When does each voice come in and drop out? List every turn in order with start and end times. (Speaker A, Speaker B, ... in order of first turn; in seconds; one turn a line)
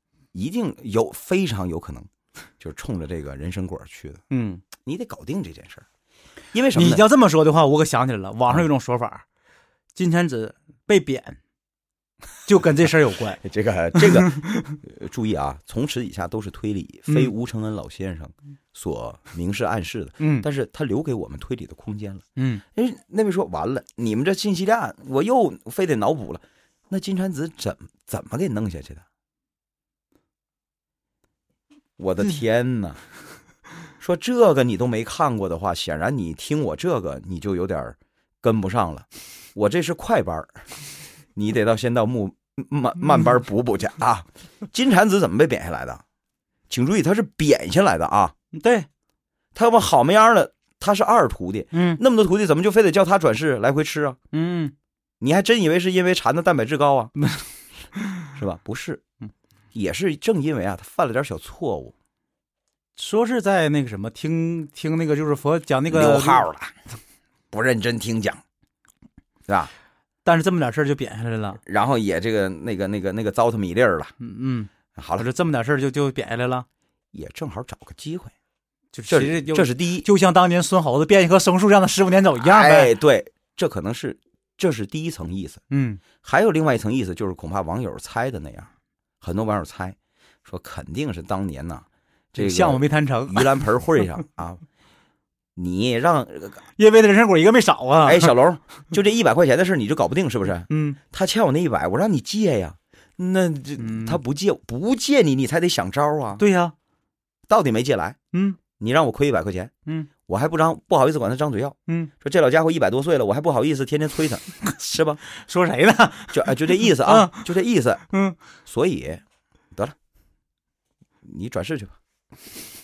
Speaker A: 0.3-4.2
Speaker B: 4.3-4.6
Speaker A: 4.8-5.8
Speaker A: 6.5-7.0
Speaker B: 6.7-9.2
Speaker B: 9.9-11.4
Speaker B: 12.4-13.4
Speaker A: 13.4-29.0
Speaker B: 20.2-20.5
Speaker B: 22.4-22.6
Speaker A: 32.0-33.0
Speaker A: 34.0-40.7
Speaker A: 41.4-46.0
Speaker A: 46.7-48.3
Speaker B: 48.5-48.9
Speaker A: 49.5-54.2
Speaker B: 51.7-52.0
Speaker B: 54.3-54.7
Speaker A: 55.2-57.1
Speaker A: 58.3-59.0
Speaker A: 59.7-61.9
Speaker B: 63.0-66.5
Speaker A: 65.9-66.7
Speaker A: 67.5-68.4
Speaker B: 70.2-71.6
Speaker A: 71.7-74.1
Speaker B: 74.2-76.7
Speaker A: 75.0-75.3
Speaker A: 77.1-78.3
Speaker B: 78.9-82.9
Speaker A: 79.1-80.1
Speaker A: 82.4-85.6
Speaker B: 85.7-86.0
Speaker A: 86.2-94.6
Speaker B: 92.3-93.6
Speaker A: 95.6-96.6
Speaker B: 96.8-98.3
Speaker A: 98.0-106.4
Speaker B: 100.7-101.0
Speaker B: 103.8-104.2
Speaker B: 106.4-106.8
Speaker A: 107.5-108.2
Speaker B: 108.3-108.6
Speaker A: 108.8-109.7
Speaker A: 110.3-115.2
Speaker B: 115.3-117.5
Speaker A: 116.3-118.0
Speaker B: 118.1-118.4
Speaker A: 118.7-119.2
Speaker A: 121.2-122.0